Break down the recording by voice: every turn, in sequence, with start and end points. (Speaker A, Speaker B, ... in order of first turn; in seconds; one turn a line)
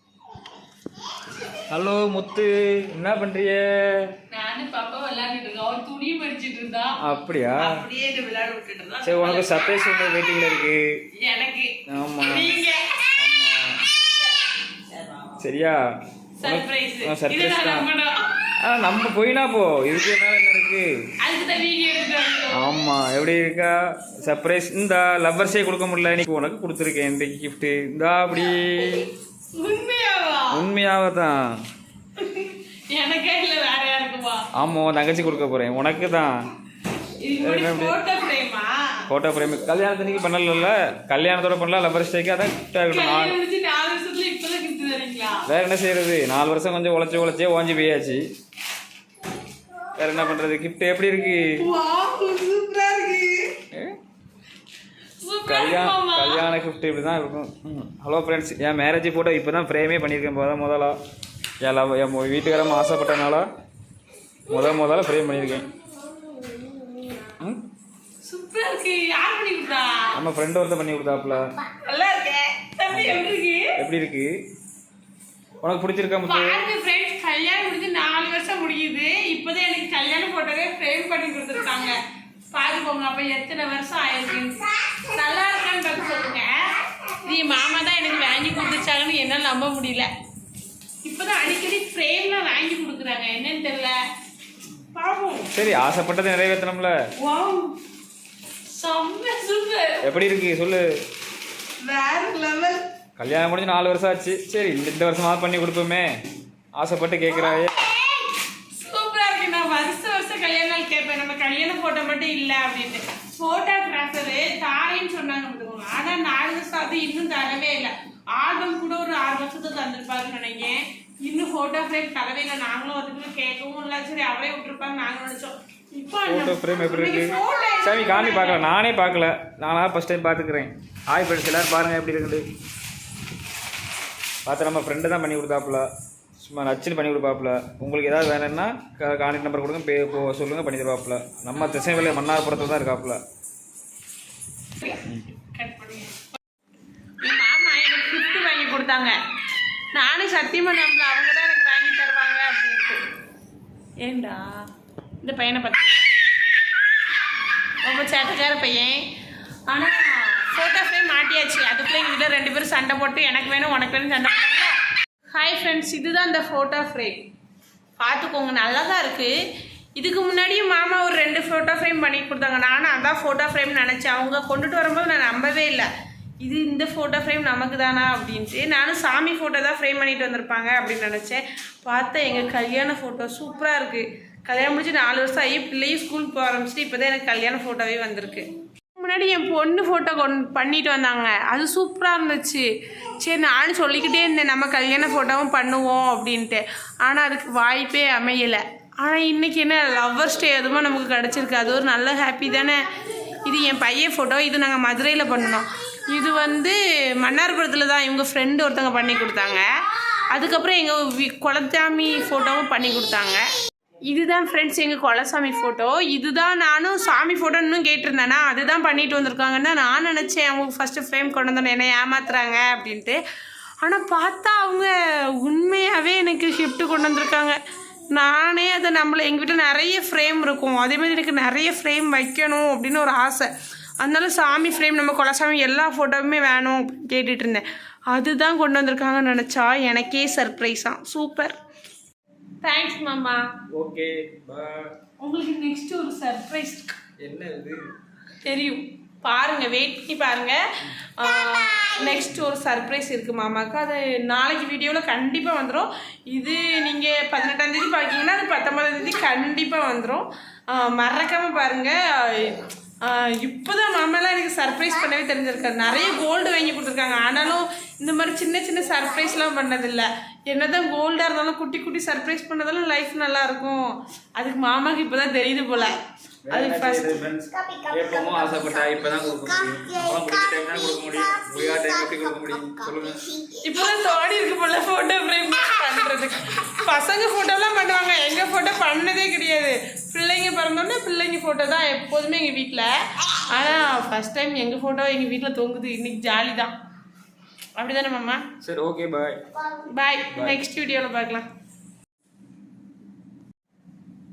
Speaker A: 1.7-4.0
Speaker B: 4.3-7.0
Speaker A: 7.0-7.8
Speaker B: 7.6-9.9
Speaker A: 9.0-10.8
Speaker B: 11.2-13.1
Speaker A: 11.9-12.5
Speaker A: 13.1-13.8
Speaker B: 14.9-15.2
Speaker A: 15.4-15.8
Speaker B: 16.4-18.3
Speaker A: 16.4-17.9
Speaker A: 18.6-20.9
Speaker B: 21.2-22.7
Speaker A: 22.5-29.1
Speaker B: 28.8-30.6
Speaker A: 30.5-31.4
Speaker B: 32.2-34.5
Speaker A: 34.5-36.4
Speaker B: 37.2-39.0
Speaker A: 37.4-38.0
Speaker A: 39.1-43.4
Speaker B: 42.9-45.5
Speaker A: 45.5-48.2
Speaker A: 50.0-51.6
Speaker B: 51.6-53.6
Speaker A: 53.7-54.0
Speaker B: 55.2-56.5
Speaker A: 55.5-61.0
Speaker A: 61.6-63.5
Speaker A: 64.5-65.7
Speaker B: 64.5-65.0
Speaker B: 66.4-67.3
Speaker B: 68.2-70.2
Speaker A: 70.1-71.5
Speaker B: 71.6-73.8
Speaker A: 72.9-74.3
Speaker A: 75.6-76.6
Speaker B: 76.2-82.0
Speaker B: 82.5-86.5
Speaker B: 87.2-90.1
Speaker B: 91.0-94.0
Speaker B: 94.9-95.5
Speaker A: 95.5-96.9
Speaker B: 97.2-97.8
Speaker B: 98.7-100.2
Speaker A: 100.0-100.8
Speaker B: 101.8-102.8
Speaker A: 103.2-106.1
Speaker A: 106.8-107.8
Speaker B: 107.5-128.7
Speaker A: 126.2-132.4
Speaker A: 134.4-135.9
Speaker A: 136.4-143.2
Speaker B: 144.8-146.3
Speaker A: 145.0-145.3
Speaker B: 147.2-149.2
Speaker B: 149.9-153.0
Speaker B: 154.0-154.5
Speaker B: 155.2-156.1
Speaker B: 157.8-159.1
Speaker B: 159.7-164.8
Speaker B: 165.3-167.2
Speaker B: 168.0-169.3
Speaker B: 169.9-175.9
Speaker B: 176.4-192.7
Speaker B: 193.2-213.4
Speaker B: 214.1-223.2
Speaker B: 223.8-227.6
Speaker B: 228.1-241.5
Speaker B: 242.6-243.4
Speaker A: 243.7-244.9
Speaker B: 245.2-247.0
Speaker A: 247.2-247.8
Speaker B: 248.4-276.0
Speaker A: 276.4-283.3
Speaker B: 276.5-277.2
Speaker B: 283.5-296.7
Speaker B: 297.8-298.4
Speaker A: 298.6-299.4
Speaker B: 299.7-301.5
Speaker A: 300.3-300.6